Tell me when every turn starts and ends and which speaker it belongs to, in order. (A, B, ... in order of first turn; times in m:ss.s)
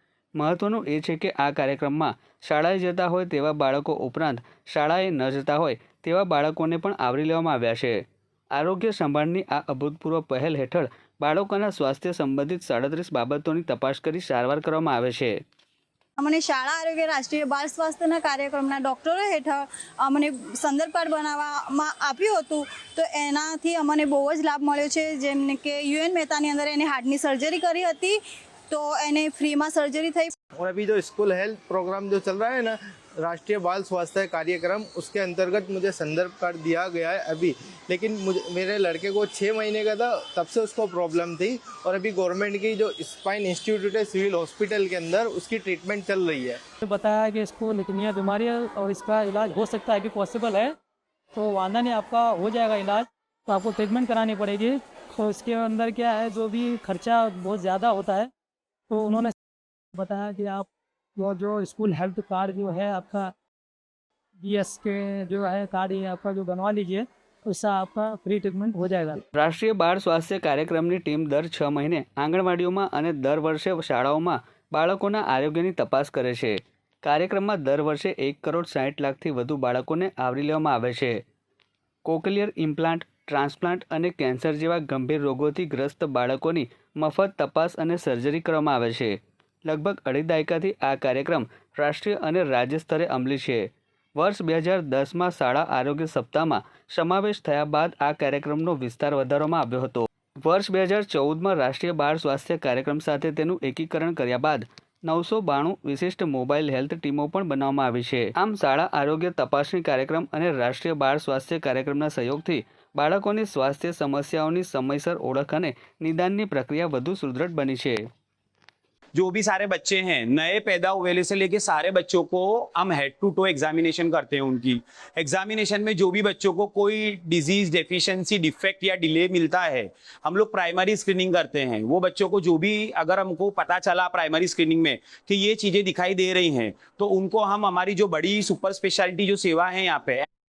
0:00.4-0:08.0 A
0:08.5-0:15.4 A
0:16.2-0:28.2 B
0:28.7-0:30.3 B
0:30.6-0:46.6 C
0:46.8-0:50.7 D
0:51.4-0:58.3 D
0:58.9-0:59.4 D
1:00.0-1:03.3 D
1:04.4-1:09.2 D
1:09.4-1:21.2 A
1:22.0-1:58.1 A
1:59.1-2:20.2 E